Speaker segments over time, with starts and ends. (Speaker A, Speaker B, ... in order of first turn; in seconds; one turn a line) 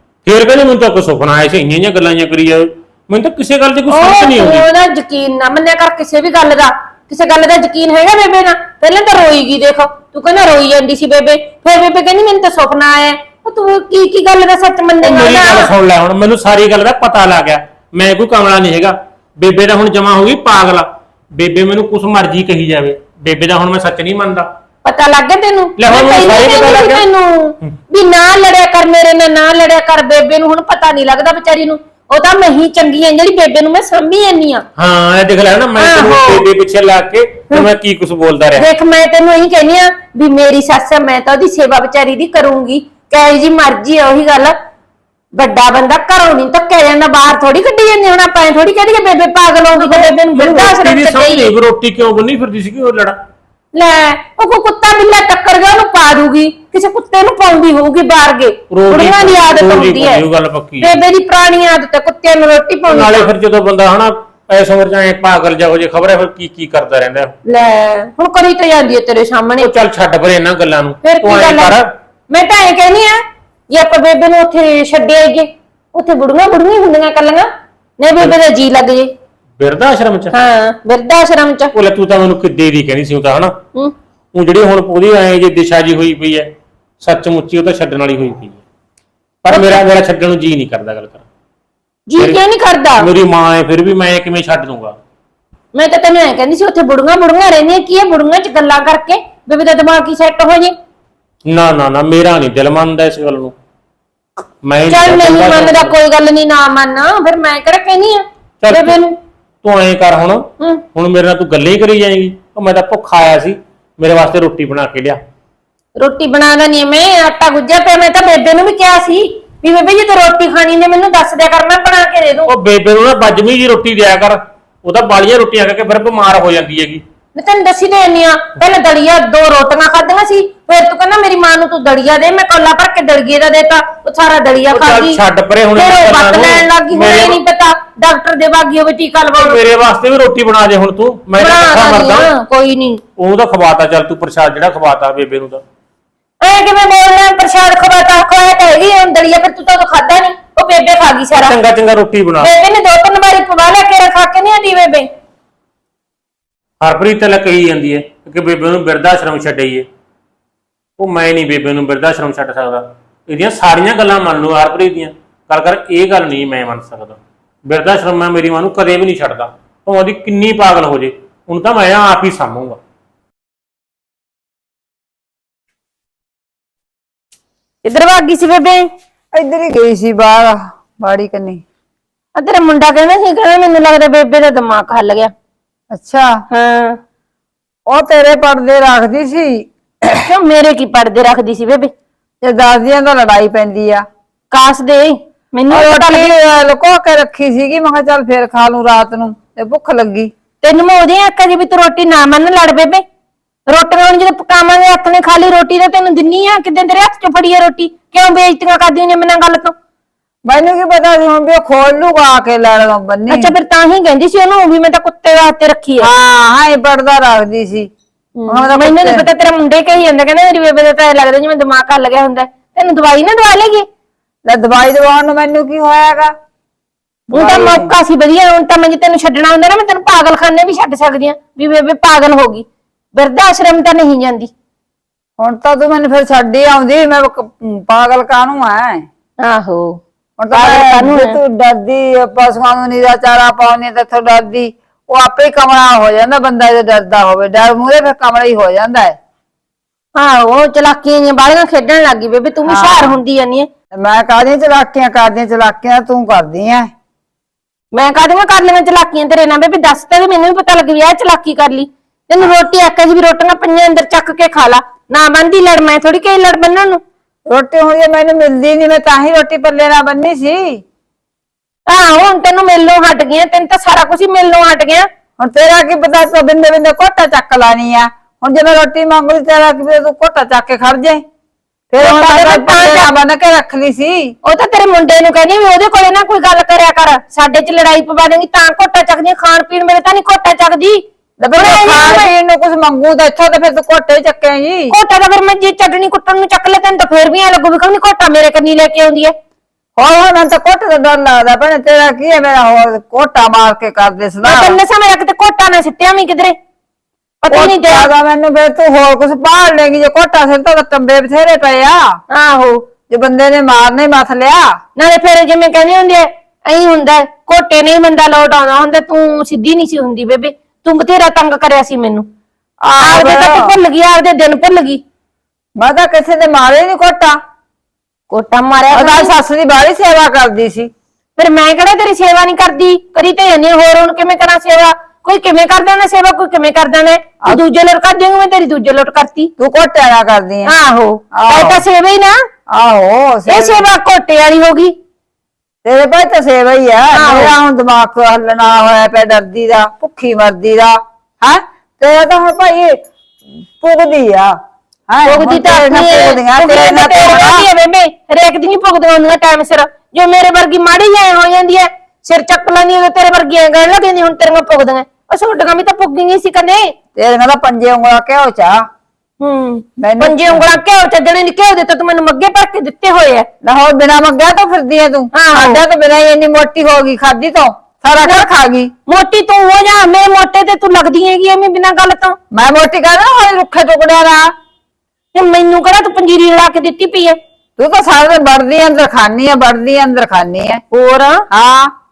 Speaker A: 0.2-4.7
Speaker B: 3.9-15.7
Speaker A: 15.0-24.5
Speaker B: 24.9-34.7
Speaker A: 25.8-27.1
Speaker A: 34.8-38.7
Speaker B: 35.8-36.4
Speaker B: 38.6-44.6
Speaker B: 45.4-51.5
Speaker A: 49.9-53.2
Speaker B: 53.7-60.2
Speaker A: 58.7-61.0
Speaker B: 60.8-63.3
Speaker A: 62.9-67.3
Speaker B: 67.5-69.7
Speaker A: 69.6-71.9
Speaker B: 71.0-71.7
Speaker B: 72.3-79.1
Speaker A: 79.6-80.3
Speaker B: 80.3-81.7
Speaker A: 81.7-83.6
Speaker A: 84.3-88.6
Speaker A: 89.5-91.2
Speaker B: 89.5-89.8
Speaker B: 92.1-93.1
Speaker A: 93.0-95.0
Speaker B: 95.7-100.8
Speaker A: 101.5-103.5
Speaker A: 104.6-105.9
Speaker B: 104.9-109.2
Speaker A: 108.6-109.0
Speaker A: 109.6-115.2
Speaker B: 116.0-122.5
Speaker A: 122.5-127.0
Speaker B: 127.4-135.2
Speaker A: 134.7-137.4
Speaker B: 135.8-139.6
Speaker A: 139.4-142.3
Speaker B: 141.4-143.0
Speaker A: 143.2-145.6
Speaker B: 146.4-151.6
Speaker A: 151.4-152.5
Speaker B: 152.4-155.1
Speaker A: 156.8-159.9
Speaker A: 161.0-172.8
Speaker B: 177.8-178.9
Speaker C: 179.3-181.6
Speaker B: 182.4-185.3
Speaker C: 185.9-186.4
Speaker B: 186.5-187.0
Speaker C: 187.9-190.3
Speaker B: 190.3-191.9
Speaker C: 192.4-194.1
Speaker B: 194.5-196.3
Speaker C: 195.7-200.3
Speaker B: 200.6-203.0
Speaker B: 203.7-209.7
Speaker C: 210.5-213.5
Speaker B: 213.3-216.1
Speaker C: 216.0-217.9
Speaker B: 218.4-223.9
Speaker C: 218.5-219.3
Speaker C: 224.5-226.3
Speaker C: 227.3-227.9
Speaker B: 227.3-234.5
Speaker C: 235.4-239.1
Speaker B: 239.4-241.4
Speaker C: 240.4-249.2
Speaker B: 250.2-253.7
Speaker C: 252.7-253.1
Speaker C: 253.9-256.9
Speaker B: 257.9-267.0
Speaker C: 267.5-270.8
Speaker B: 271.9-275.1
Speaker C: 275.4-281.2
Speaker C: 281.9-284.4
Speaker B: 282.0-283.1
Speaker B: 284.4-292.3
Speaker C: 291.4-294.9
Speaker B: 294.9-299.3
Speaker C: 300.0-304.8
Speaker B: 304.4-306.6
Speaker B: 307.4-308.1
Speaker C: 307.5-312.2
Speaker B: 312.3-312.8
Speaker C: 313.1-314.8
Speaker B: 315.0-322.3
Speaker C: 322.8-323.7
Speaker B: 323.0-325.0
Speaker C: 325.8-327.4
Speaker B: 328.3-329.3
Speaker C: 328.9-330.9
Speaker B: 331.4-339.5
Speaker C: 339.6-340.7
Speaker B: 340.7-342.4
Speaker C: 341.3-341.8
Speaker C: 342.7-343.9
Speaker B: 343.5-344.9
Speaker C: 345.8-353.0
Speaker B: 347.1-347.5
Speaker C: 353.6-354.6
Speaker C: 355.1-357.7
Speaker B: 355.2-366.9
Speaker C: 367.2-368.8
Speaker B: 369.4-373.5
Speaker C: 370.0-370.8
Speaker C: 373.6-378.9
Speaker B: 375.3-375.8
Speaker B: 379.1-382.4
Speaker C: 382.5-384.5
Speaker B: 385.3-387.4
Speaker C: 387.8-390.8
Speaker B: 390.9-391.5
Speaker C: 391.5-391.9